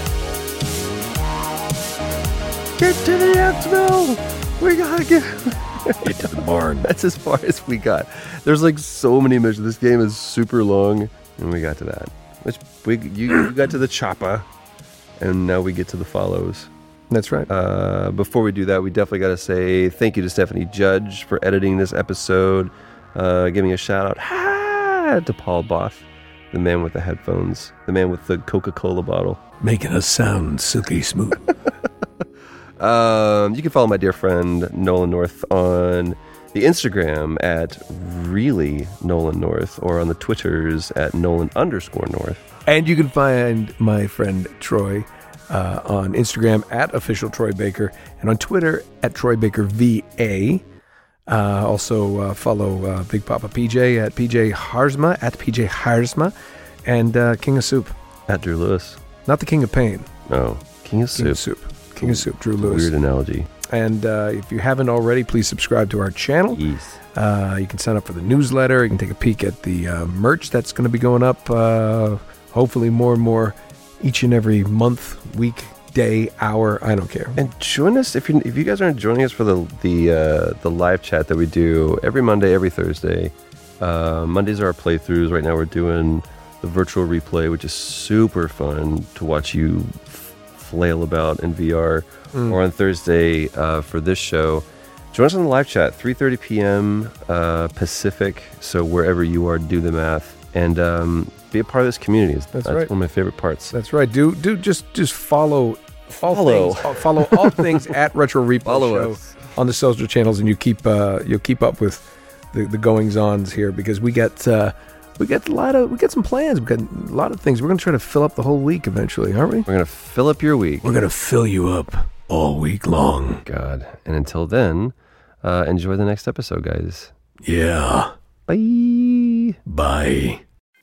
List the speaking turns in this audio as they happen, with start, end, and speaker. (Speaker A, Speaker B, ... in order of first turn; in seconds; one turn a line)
Speaker A: 2.8-14.5
Speaker A: 15.2-16.7
Speaker B: 17.1-17.5
Speaker A: 17.5-29.4
Speaker B: 29.6-31.5
Speaker A: 32.8-42.4
Speaker B: 42.6-50.6
Speaker B: 51.3-56.3
Speaker B: 56.8-57.9
Speaker A: 58.3-59.0
Speaker B: 59.2-60.1
Speaker A: 60.3-61.4
Speaker B: 61.1-62.9
Speaker A: 61.9-63.5
Speaker B: 63.6-66.6
Speaker A: 66.5-67.0
Speaker B: 67.1-77.4
Speaker A: 77.3-103.7
Speaker B: 102.5-102.9
Speaker B: 103.7-119.7
Speaker A: 106.1-107.9
Speaker A: 108.6-109.3
Speaker A: 119.7-121.0
Speaker B: 120.8-123.4
Speaker A: 123.4-127.1
Speaker B: 127.4-128.1
Speaker A: 128.5-129.6
Speaker B: 129.7-130.4